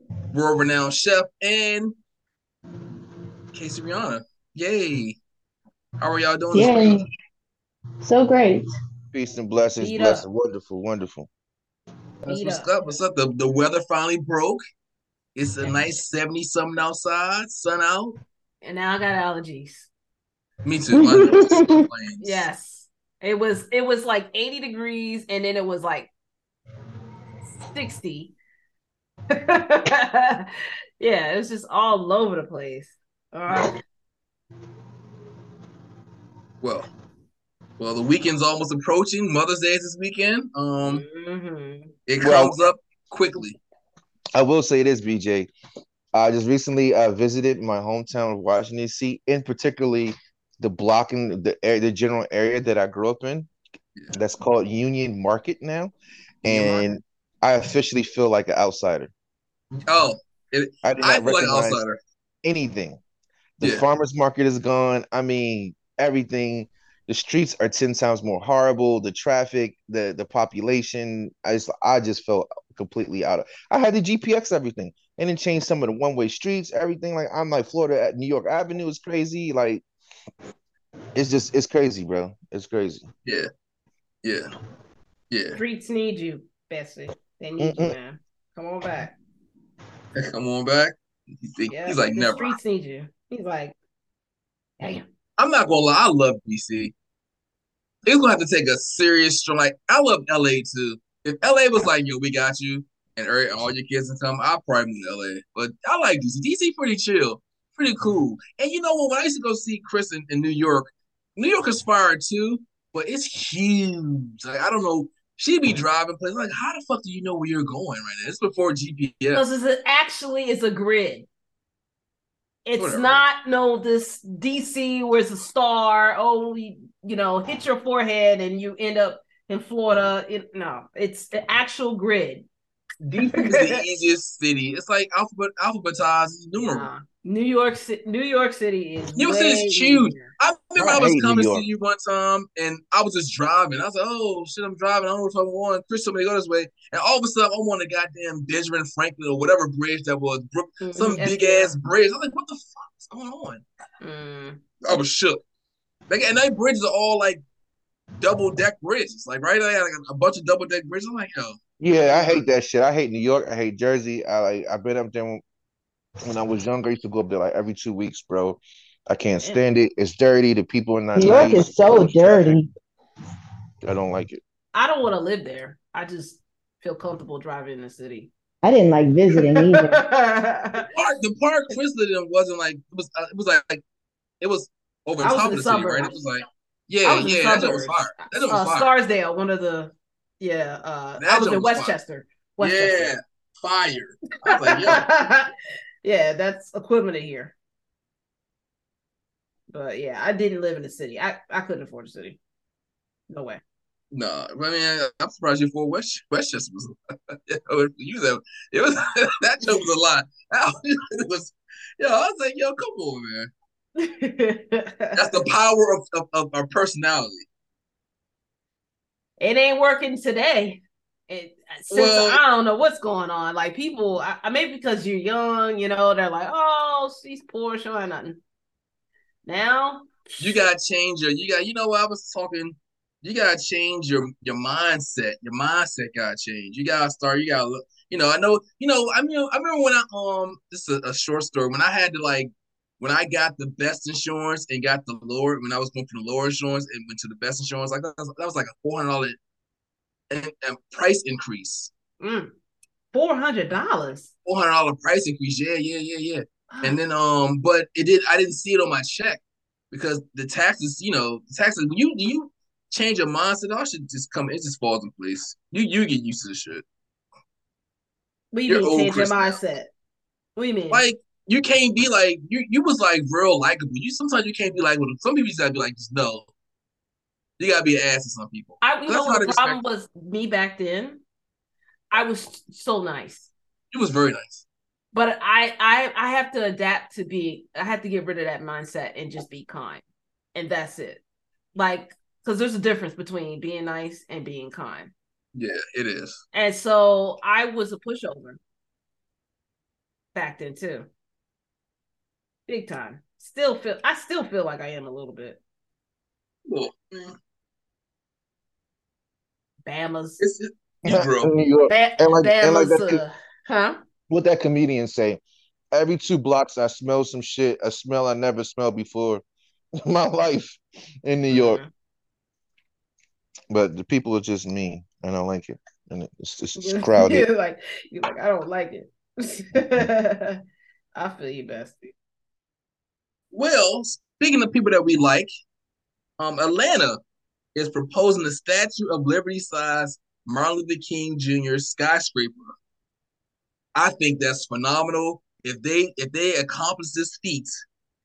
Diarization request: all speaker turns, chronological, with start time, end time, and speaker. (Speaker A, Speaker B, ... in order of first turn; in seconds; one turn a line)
Speaker A: 0.3-1.9
Speaker A: 3.5-5.2
Speaker A: 6.0-7.0
Speaker B: 6.5-7.0
Speaker B: 8.0-8.6
Speaker C: 9.1-11.3
Speaker D: 9.8-10.2
Speaker A: 12.2-14.6
Speaker D: 12.2-12.7
Speaker A: 15.3-18.1
Speaker D: 15.6-15.9
Speaker D: 18.6-19.9
Speaker A: 20.6-22.4
Speaker B: 20.9-21.8
Speaker D: 22.2-26.1
Speaker D: 27.6-28.3
Speaker D: 29.3-30.5
Speaker D: 31.0-33.8
Speaker A: 36.6-36.9
Speaker A: 37.8-41.0
Speaker D: 40.8-41.9
Speaker A: 42.1-43.6
Speaker C: 42.2-42.5
Speaker C: 44.4-45.5
Speaker C: 46.1-53.5
Speaker C: 54.1-55.9
Speaker A: 56.4-56.9
Speaker C: 56.4-59.1
Speaker A: 59.9-62.0
Speaker C: 60.8-61.8
Speaker C: 62.4-63.0
Speaker C: 63.6-79.8
Speaker C: 81.1-83.0
Speaker A: 84.2-84.5
Speaker A: 85.3-85.6
Speaker D: 85.5-89.2
Speaker C: 87.6-88.0
Speaker A: 90.1-92.6
Speaker D: 91.7-93.7
Speaker D: 94.8-95.0
Speaker A: 95.4-96.9
Speaker A: 98.0-119.4
Speaker D: 119.3-121.3
Speaker D: 122.6-132.5
Speaker A: 122.8-123.2
Speaker A: 133.0-136.9
Speaker D: 133.2-133.8
Speaker D: 136.6-140.3
Speaker A: 139.1-153.6
Speaker C: 140.8-141.6
Speaker D: 150.8-151.7
Speaker D: 154.0-155.0
Speaker A: 154.8-155.4
Speaker A: 156.1-157.4
Speaker A: 158.2-161.6
Speaker C: 161.8-165.4
Speaker D: 161.9-162.4
Speaker C: 166.2-172.6
Speaker B: 171.1-172.7
Speaker C: 173.8-174.4
Speaker D: 174.7-178.3
Speaker B: 178.6-180.0
Speaker D: 179.4-180.9
Speaker A: 180.9-183.8
Speaker A: 184.4-188.9
Speaker D: 185.2-186.1
Speaker D: 187.0-193.1
Speaker A: 191.2-191.9
Speaker A: 192.6-195.1
Speaker D: 194.5-195.5
Speaker D: 196.0-197.5
Speaker D: 199.7-202.4
Speaker D: 203.3-203.6
Speaker A: 204.1-213.5
Speaker D: 214.0-215.3
Speaker A: 215.1-217.4
Speaker D: 219.4-228.4
Speaker A: 221.9-222.4
Speaker D: 229.4-230.6
Speaker A: 230.4-249.4
Speaker A: 250.3-251.9
Speaker D: 252.2-252.5
Speaker D: 253.1-254.3
Speaker A: 254.4-266.8
Speaker D: 256.7-257.0
Speaker D: 268.5-269.9
Speaker A: 268.7-269.6
Speaker D: 270.6-271.0
Speaker A: 270.9-276.5
Speaker A: 277.6-279.8
Speaker D: 278.8-281.2
Speaker D: 282.1-283.5
Speaker A: 283.9-284.6
Speaker D: 285.1-290.0
Speaker D: 290.5-291.2
Speaker D: 291.7-295.1
Speaker A: 295.5-296.4
Speaker D: 296.5-298.6
Speaker D: 300.3-301.1
Speaker D: 302.7-305.6
Speaker A: 306.7-307.4
Speaker D: 309.8-310.4
Speaker A: 310.4-311.5
Speaker C: 311.1-313.2
Speaker D: 311.9-314.0
Speaker C: 314.3-315.4
Speaker C: 315.9-319.4
Speaker C: 320.0-321.8
Speaker D: 321.5-321.9
Speaker C: 323.7-327.5
Speaker D: 326.8-330.6
Speaker D: 331.1-332.1
Speaker A: 333.5-335.5
Speaker A: 336.4-337.2
Speaker A: 337.7-342.7
Speaker A: 343.9-347.8